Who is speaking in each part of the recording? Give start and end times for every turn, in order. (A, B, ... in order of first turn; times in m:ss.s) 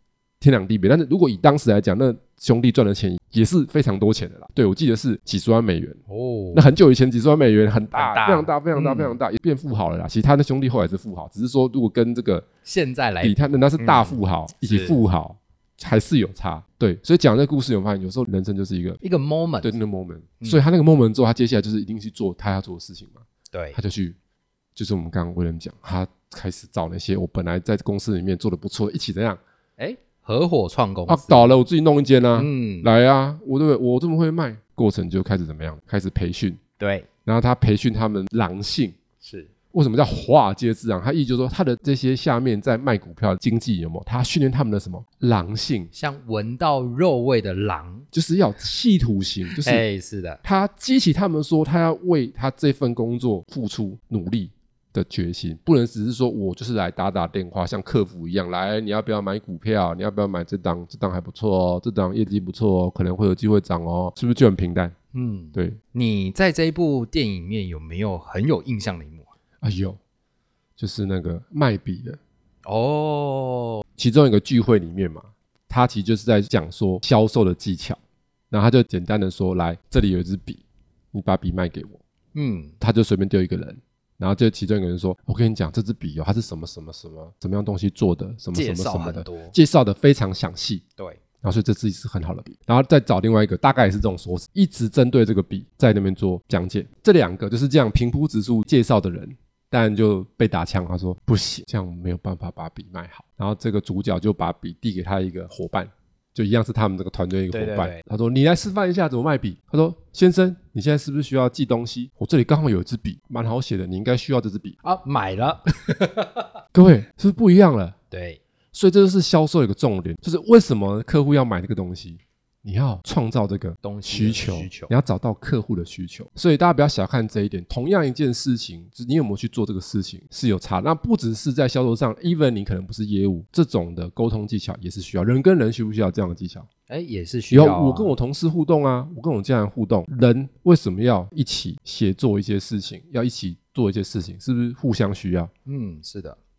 0:00.4-0:06.0 A
0:06.1-0:06.7 B
0:06.5-0:12.5 A
0:08.0-0:09.2 B
0:12.6-0:15.0 B
0:13.2-0:19.0 A
0:19.0-0:19.8 B
0:19.6-0:24.2 A
0:23.5-0:23.8 B
0:24.8-0:29.4 A
0:29.8-0:31.6 B
0:31.1-0:36.6 A
0:32.4-0:32.9 B
0:36.8-0:37.1 B
0:37.3-0:39.0 A
0:39.2-0:39.5 B
0:39.7-0:45.9 A
0:45.9-0:48.1 B
0:48.1-0:49.8 A
0:49.5-0:50.4 B
0:50.4-1:05.0 A
1:05.1-1:09.3 B
1:09.6-1:10.0 A
1:10.8-1:12.2 A
1:12.6-1:13.8 B
1:14.0-1:18.0 A
1:18.5-1:22.0 A
1:22.3-1:22.8 B
1:22.8-1:30.8 A
1:28.5-1:29.6 B
1:31.4-1:54.8 A
1:47.5-1:48.0 B
1:54.8-1:56.5 B
1:56.7-1:58.0 A
1:58.1-1:58.4 B
1:58.7-2:16.7 A
2:03.8-2:04.9 B
2:16.9-2:18.2 B
2:17.5-2:25.5 A
2:25.7-2:26.4 B